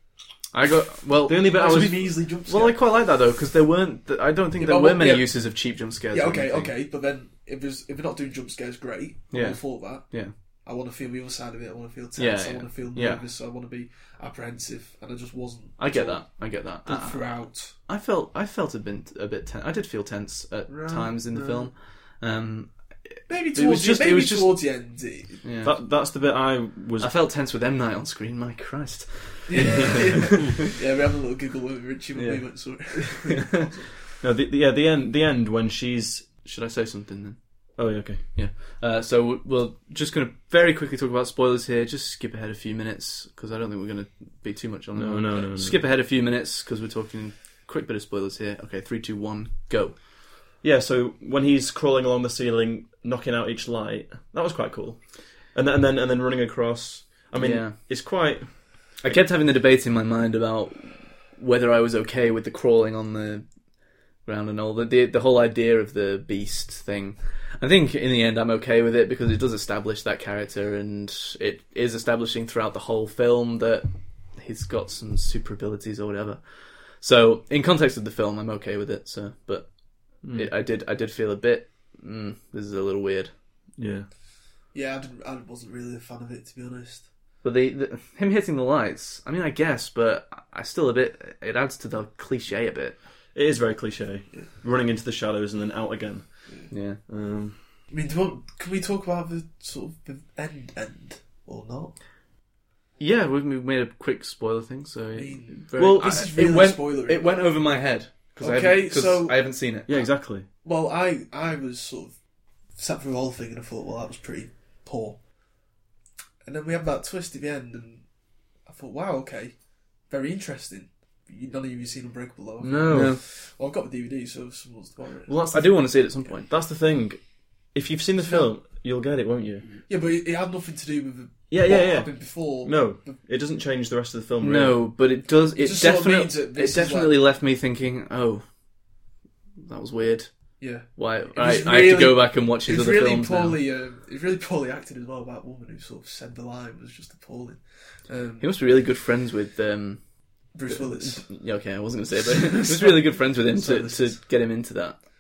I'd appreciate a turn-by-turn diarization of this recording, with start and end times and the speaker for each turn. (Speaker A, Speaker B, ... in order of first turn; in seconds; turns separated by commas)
Speaker A: 0.5-6.7, Speaker B: 1.3-2.2, Speaker C: 1.5-2.8, Speaker C: 4.6-5.5, Speaker C: 6.1-17.8, Speaker A: 9.3-10.3, Speaker A: 12.2-13.2, Speaker A: 15.8-25.8, Speaker C: 20.7-21.7, Speaker C: 23.3-25.4, Speaker B: 25.6-27.1, Speaker A: 27.0-30.6, Speaker C: 29.5-33.9, Speaker A: 32.2-33.3, Speaker B: 34.2-36.3, Speaker A: 36.4-50.0, Speaker B: 37.8-38.3, Speaker B: 45.0-45.8, Speaker B: 50.6-59.2, Speaker A: 57.4-57.8, Speaker A: 59.0-63.5, Speaker A: 64.2-83.3, Speaker B: 80.2-80.5, Speaker B: 83.8-84.1, Speaker C: 84.7-87.1, Speaker A: 87.4-93.0, Speaker B: 93.3-97.6, Speaker A: 96.7-97.0, Speaker C: 97.9-102.0, Speaker A: 103.0-109.9, Speaker C: 105.2-107.6, Speaker B: 105.8-106.2, Speaker C: 108.4-112.2, Speaker B: 109.9-110.5, Speaker C: 112.8-115.2, Speaker C: 116.5-118.1, Speaker C: 118.7-125.4, Speaker B: 122.6-123.2, Speaker A: 122.9-123.2, Speaker B: 125.3-129.7, Speaker A: 125.5-126.5, Speaker C: 128.2-128.5, Speaker C: 129.9-133.2, Speaker B: 131.5-134.8, Speaker A: 134.4-138.5, Speaker C: 135.5-137.2, Speaker A: 139.6-143.6, Speaker C: 140.6-148.5, Speaker A: 148.4-155.0, Speaker C: 150.5-151.3, Speaker C: 152.3-154.2